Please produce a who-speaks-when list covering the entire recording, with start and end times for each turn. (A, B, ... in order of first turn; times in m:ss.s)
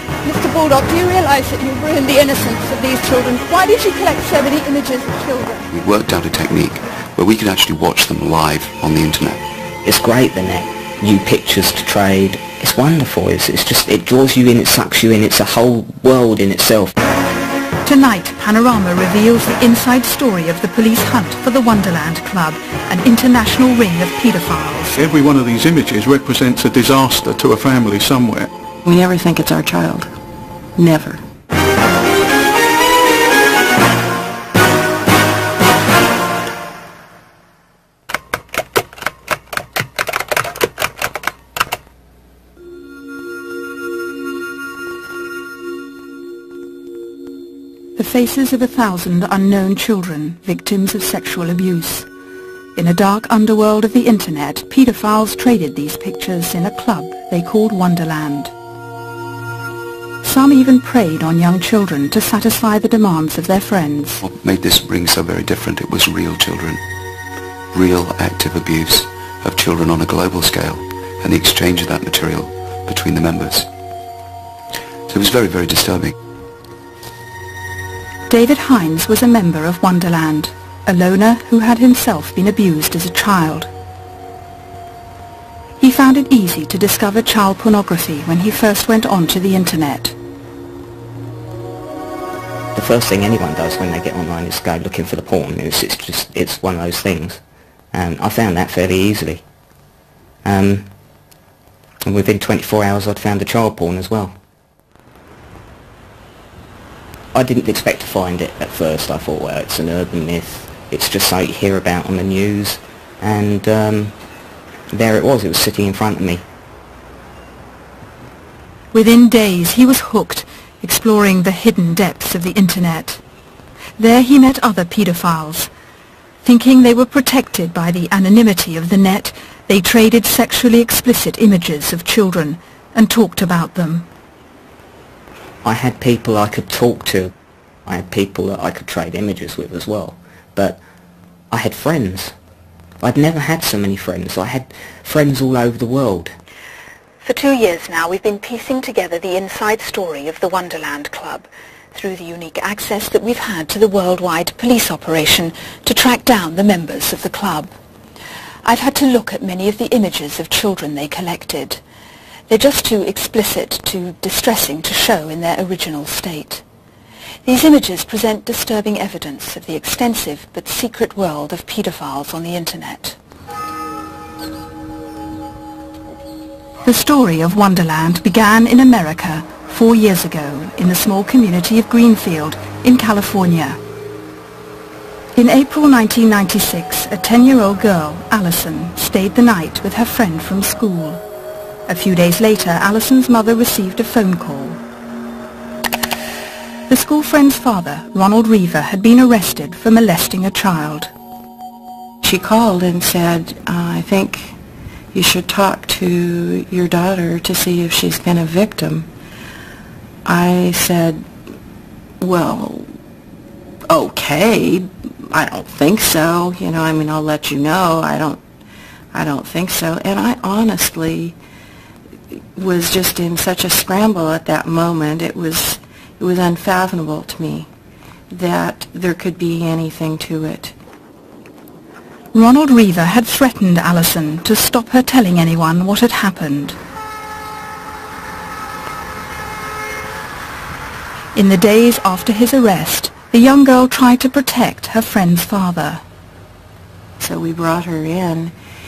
0:00.2-0:05.6 A
0:05.7-0:09.4 B
0:09.8-0:16.9 C
0:17.8-0:25.0 D
0:25.0-0:28.5 E
0:28.8-0:30.1 F
0:30.8-0:31.2 F
0:48.0-0:52.1 D
0:52.8-0:58.5 D
1:00.2-1:04.2 D
1:04.2-1:06.8 B
1:07.7-1:13.7 B
1:15.1-1:16.1 B
1:18.3-1:23.7 D
1:25.8-1:30.2 D
1:32.7-1:37.4 C
1:37.9-1:39.4 C
1:40.4-1:40.9 C
1:42.0-1:44.4 C
1:47.3-1:54.1 C
1:54.9-1:56.4 C
1:58.9-2:03.2 D
2:04.0-2:05.7 D
2:06.4-2:14.1 D
2:15.6-2:17.3 C
2:17.8-2:20.8 C
2:21.5-2:22.3 C
2:23.0-2:26.3 C
2:27.2-2:37.7 D
2:38.6-2:41.8 D
2:42.5-2:46.6 D
2:47.4-2:53.2 D
2:56.8-3:03.8 D
3:05.3-3:11.2 D
3:11.9-3:14.8 D
3:16.9-3:21.1 D
3:22.2-3:24.6 F
3:25.1-3:29.1 F
3:30.2-3:31.3 F
3:32.2-3:32.9 F
3:33.9-3:38.4 F
3:39.1-3:41.4 F
3:42.5-3:47.7 F
3:48.3-3:50.7 F
3:52.3-3:56.8 D
4:01.3-4:06.0 D
4:07.2-4:08.5 F